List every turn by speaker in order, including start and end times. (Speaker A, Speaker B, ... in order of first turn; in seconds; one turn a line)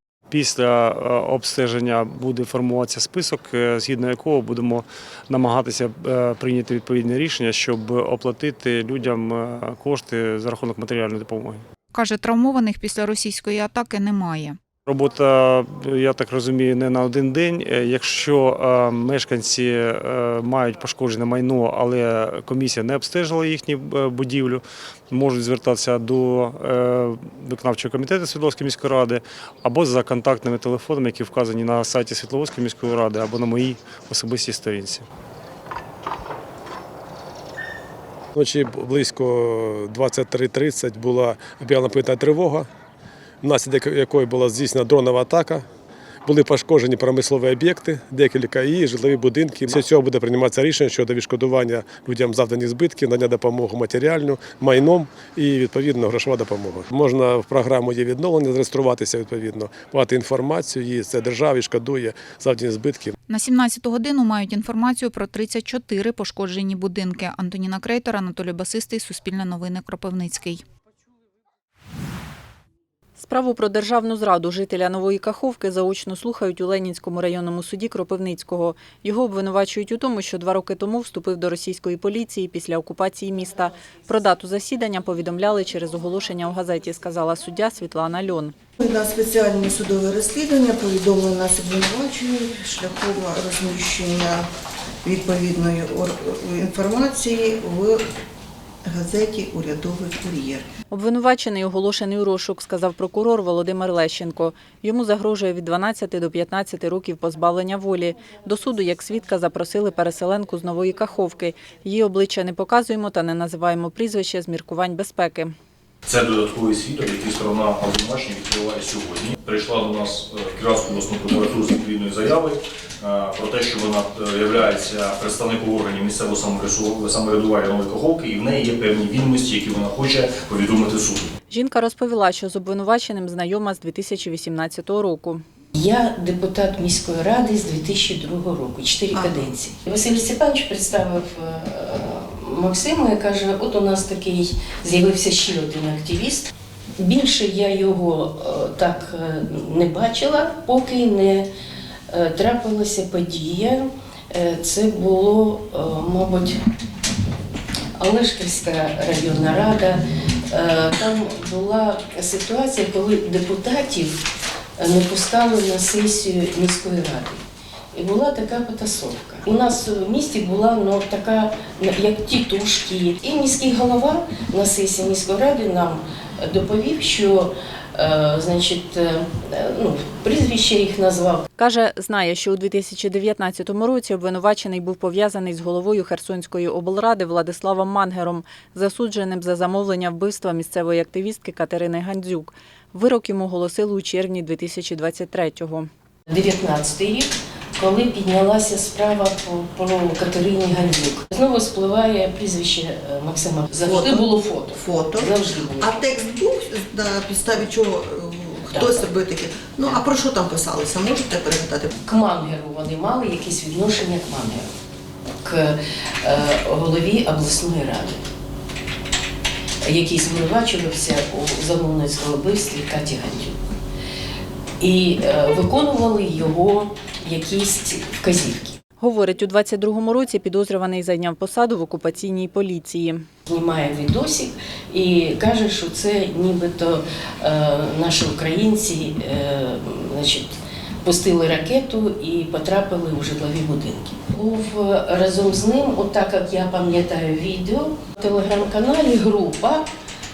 Speaker A: 0.3-11.6
Speaker B: 11.9-14.6
Speaker A: 14.8-35.0
Speaker C: 38.3-42.7
Speaker C: 43.4-45.6
Speaker C: 46.2-63.1
Speaker B: 63.3-70.6
Speaker D: 73.2-88.5
Speaker E: 88.8-94.5
Speaker E: 95.0-98.0
Speaker E: 98.8-100.7
Speaker D: 100.9-115.5
Speaker F: 116.0-131.3
Speaker D: 131.5-135.4
Speaker G: 135.7-151.5
Speaker E: 139.1-139.6
Speaker G: 152.1-156.6
Speaker G: 158.0-164.2
Speaker G: 164.8-181.4
Speaker D: 181.6-195.9
Speaker G: 196.3-206.1
Speaker E: 203.8-211.9
Speaker G: 208.7-209.1
Speaker G: 212.0-214.7
Speaker G: 215.4-218.3
Speaker G: 219.8-223.5
Speaker G: 224.8-228.8
Speaker D: 229.0-233.2
Speaker G: 233.5-249.8